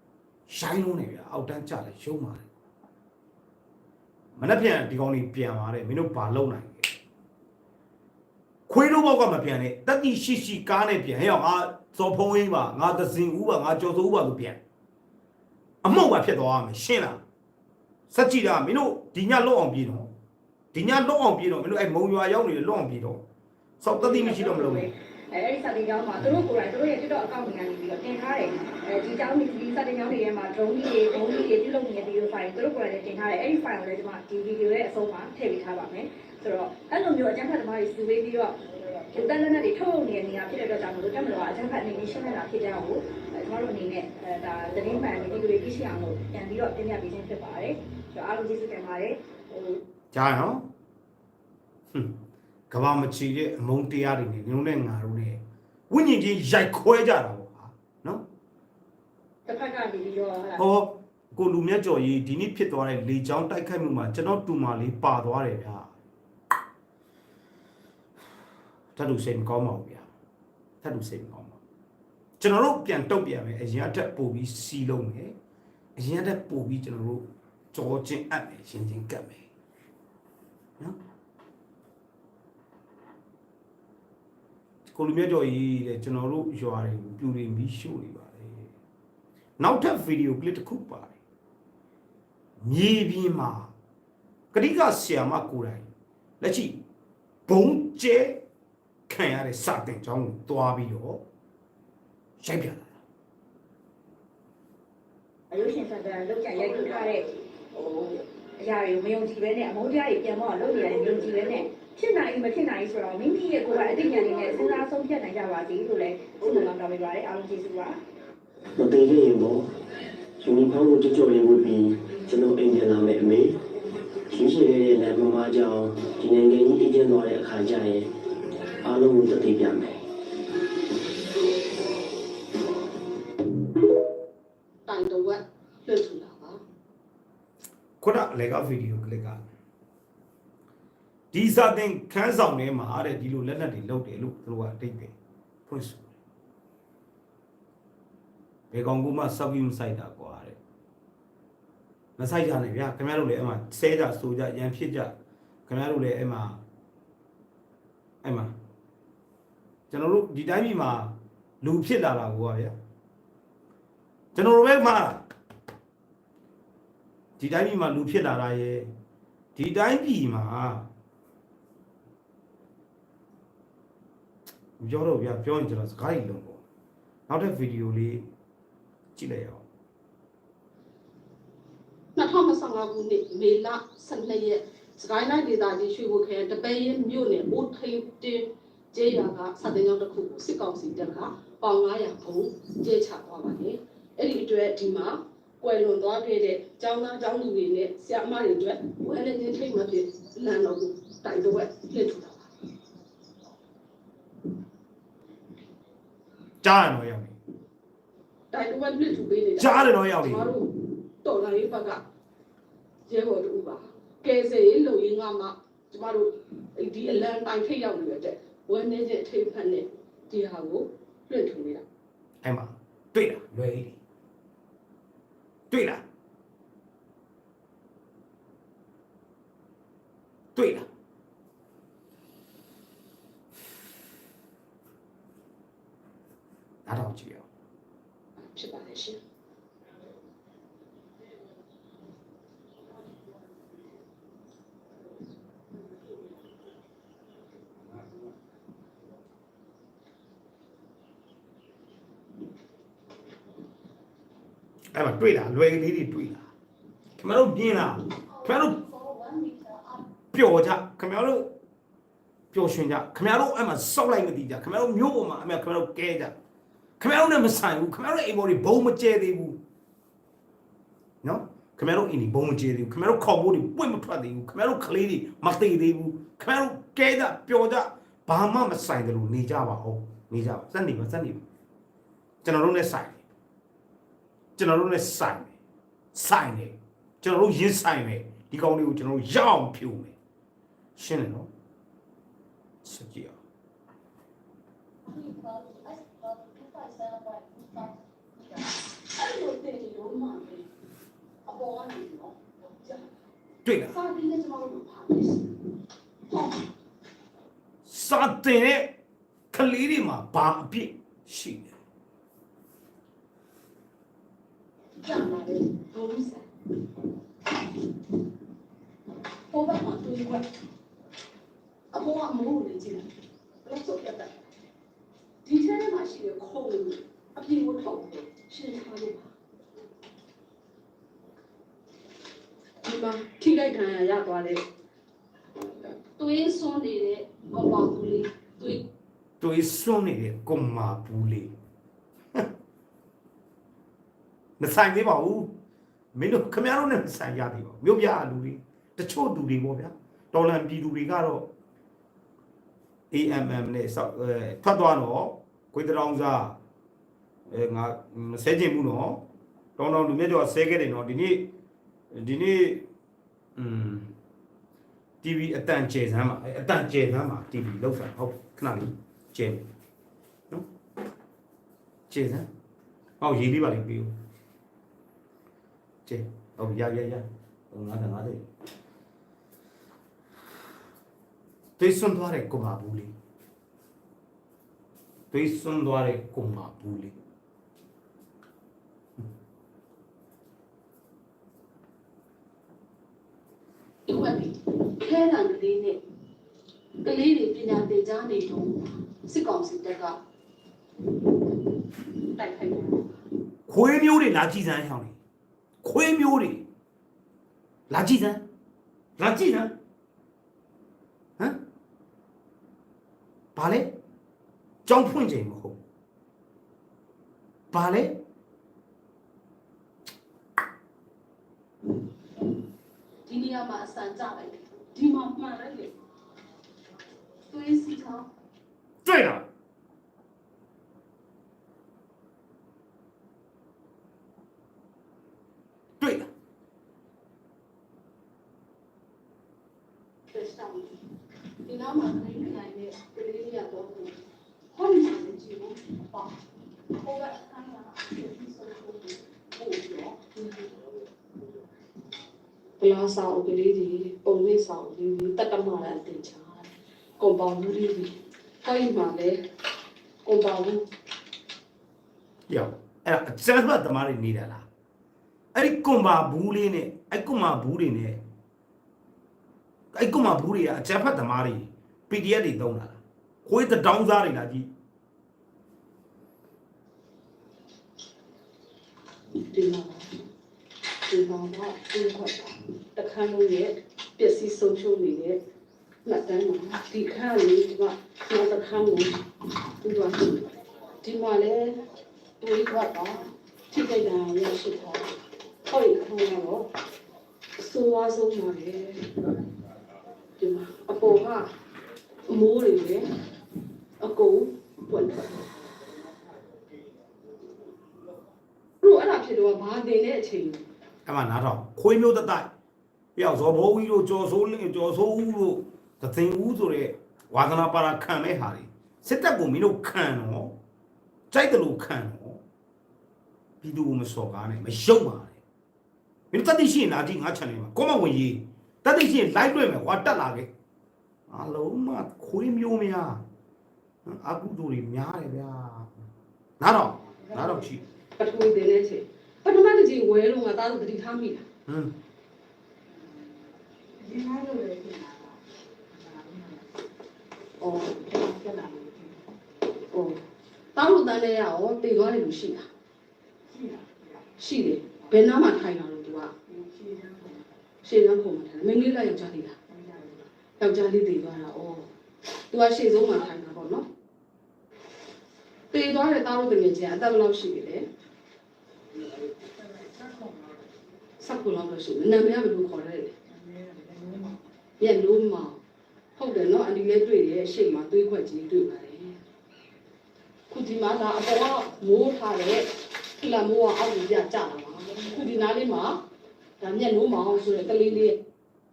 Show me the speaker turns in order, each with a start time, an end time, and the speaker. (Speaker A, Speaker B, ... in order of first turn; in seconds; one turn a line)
Speaker A: 0.5-2.5
Speaker A: 4.4-6.9
Speaker A: 8.7-14.6
Speaker A: 15.8-17.2
Speaker A: 18.1-20.1
Speaker A: 20.7-23.2
Speaker A: 23.8-24.9
Speaker B: 23.9-38.6
Speaker B: 39.1-49.8
Speaker A: 50.1-50.7
Speaker A: 51.9-52.2
Speaker A: 52.7-58.2
Speaker B: 59.5-60.6
Speaker A: 60.6-65.9
Speaker A: 69.0-70.0
Speaker A: 70.8-71.6
Speaker A: 72.4-75.3
Speaker A: 76.0-79.4
Speaker A: 84.8-88.7
Speaker A: 89.6-91.1
Speaker A: 92.6-93.7
Speaker A: 94.5-95.9
Speaker A: 96.4-96.8
Speaker A: 97.5-98.4
Speaker A: 99.1-101.2
Speaker A: 102.4-103.0
Speaker B: 105.5-107.2
Speaker C: 106.6-107.1
Speaker C: 107.7-108.2
Speaker B: 108.6-118.0
Speaker C: 111.1-111.4
Speaker C: 113.7-114.8
Speaker C: 116.4-116.7
Speaker D: 118.7-119.7
Speaker D: 120.4-123.6
Speaker D: 124.3-128.1
Speaker D: 128.7-130.0
Speaker C: 134.9-136.6
Speaker A: 138.0-139.4
Speaker A: 141.3-145.1
Speaker A: 145.7-146.1
Speaker A: 148.7-150.6
Speaker A: 152.2-155.1
Speaker A: 155.7-156.6
Speaker A: 158.2-158.5
Speaker A: 159.9-162.7
Speaker A: 164.3-165.2
Speaker A: 167.4-168.9
Speaker A: 169.6-170.9
Speaker A: 174.8-176.6
Speaker A: 177.3-178.2
Speaker A: 179.2-179.6
Speaker C: 182.2-202.5
Speaker A: 206.6-207.3
Speaker C: 208.5-210.7
Speaker A: 209.6-210.5
Speaker C: 211.2-212.0
Speaker C: 213.1-221.8
Speaker A: 222.4-224.0
Speaker A: 225.7-226.0
Speaker A: 230.5-230.9
Speaker A: 236.8-237.4
Speaker C: 238.4-239.2
Speaker A: 254.9-256.5
Speaker A: 257.2-258.8
Speaker C: 258.3-260.0
Speaker A: 260.3-261.5
Speaker A: 262.5-266.3
Speaker A: 267.0-269.6
Speaker A: 271.2-281.4
Speaker A: 282.4-283.2
Speaker A: 284.6-285.5
Speaker A: 286.1-290.1
Speaker A: 290.9-291.5
Speaker A: 292.8-293.4
Speaker C: 295.1-300.7
Speaker C: 301.4-303.1
Speaker A: 303.6-303.9
Speaker C: 303.9-305.5
Speaker C: 306.3-306.7
Speaker A: 307.8-308.9
Speaker A: 309.5-311.7
Speaker C: 315.0-316.5
Speaker C: 319.5-320.4
Speaker C: 321.9-323.1
Speaker C: 323.6-324.4
Speaker C: 325.4-329.3
Speaker C: 332.8-334.6
Speaker C: 336.0-338.8
Speaker A: 339.4-341.5
Speaker A: 344.6-345.5
Speaker A: 346.1-351.5
Speaker A: 353.1-356.6
Speaker A: 357.5-359.2
Speaker A: 359.8-361.5
Speaker A: 362.1-362.9
Speaker A: 363.6-364.1
Speaker A: 365.2-369.6
Speaker A: 372.1-372.5
Speaker A: 373.2-374.1
Speaker A: 376.1-378.5
Speaker A: 381.8-383.1
Speaker A: 385.3-387.1
Speaker C: 394.1-396.0
Speaker C: 397.0-400.2
Speaker C: 402.2-403.1
Speaker A: 403.7-405.2
Speaker A: 405.8-406.6
Speaker A: 407.9-408.4
Speaker A: 409.2-409.8
Speaker A: 413.5-413.9
Speaker A: 414.9-415.8
Speaker A: 417.7-418.2
Speaker C: 423.3-425.9
Speaker C: 427.5-428.3
Speaker A: 429.0-429.4
Speaker A: 436.0-436.3
Speaker C: 440.3-440.9
Speaker C: 441.6-444.1
Speaker C: 444.7-450.8
Speaker C: 452.8-456.7
Speaker C: 457.2-458.1
Speaker C: 458.6-459.4
Speaker C: 460.2-460.8
Speaker A: 462.5-464.6
Speaker A: 465.5-468.2
Speaker A: 469.9-474.7
Speaker C: 479.5-480.1
Speaker C: 481.1-485.4
Speaker C: 486.0-489.2
Speaker C: 489.8-491.8
Speaker C: 492.4-495.1
Speaker C: 495.7-496.6
Speaker C: 497.6-499.4
Speaker C: 500.4-501.5
Speaker C: 502.3-503.0
Speaker C: 504.0-505.5
Speaker C: 508.8-510.6
Speaker A: 511.1-512.5
Speaker A: 513.1-520.5
Speaker A: 521.3-522.4
Speaker A: 523.6-525.4
Speaker A: 526.3-530.5
Speaker A: 531.3-533.2
Speaker A: 534.0-535.9
Speaker A: 536.6-537.8
Speaker C: 538.2-541.4
Speaker A: 541.7-541.9
Speaker C: 544.0-545.2
Speaker C: 546.1-546.5
Speaker C: 547.6-549.1
Speaker C: 549.9-550.2
Speaker C: 550.7-552.6
Speaker C: 554.4-557.2
Speaker C: 557.8-561.9
Speaker C: 562.5-563.9
Speaker C: 565.7-567.8
Speaker C: 571.2-573.1
Speaker C: 573.9-574.2
Speaker C: 574.8-575.6
Speaker C: 576.2-579.1
Speaker C: 580.5-586.0
Speaker C: 586.6-588.2